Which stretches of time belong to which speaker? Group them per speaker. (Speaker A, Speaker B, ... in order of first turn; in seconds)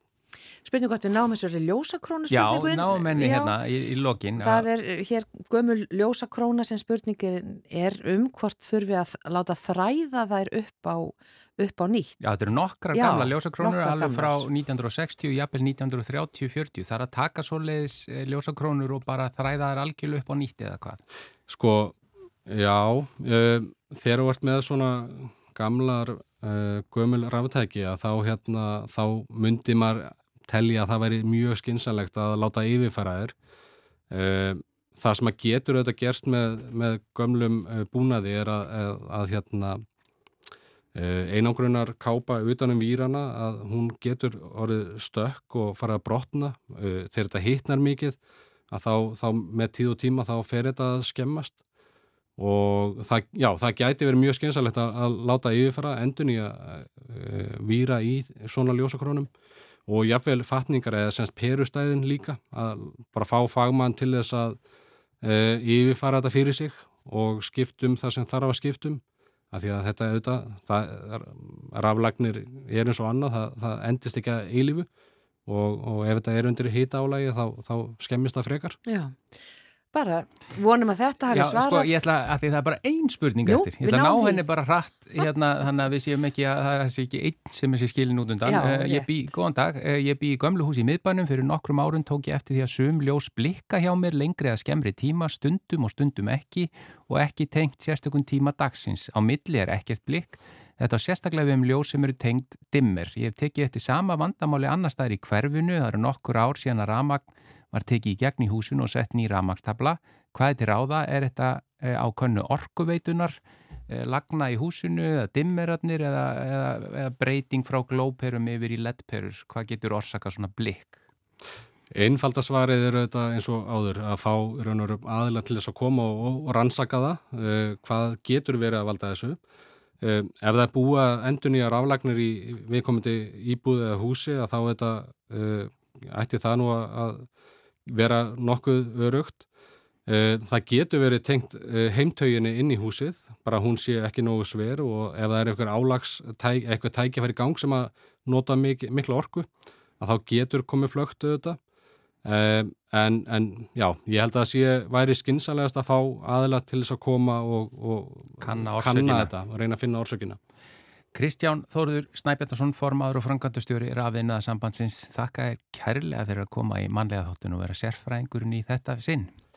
Speaker A: 0.6-3.5, 4.3-12.2, 12.9-14.4, 78.8-79.2, 79.9-82.0, 83.5-84.4, 88.5-89.1
Speaker B: 2.3-4.7, 12.2-21.0, 81.3-121.0, 158.4-159.3, 161.1-169.3
Speaker C: 21.5-33.3, 34.1-39.8, 40.9-48.2, 48.7-51.6, 52.4-59.3, 59.9-64.6, 65.2-74.9, 75.5-78.8, 121.9-129.4, 130.0-137.2, 137.8-139.5, 140.1-149.5, 150.0-151.6, 152.2-160.4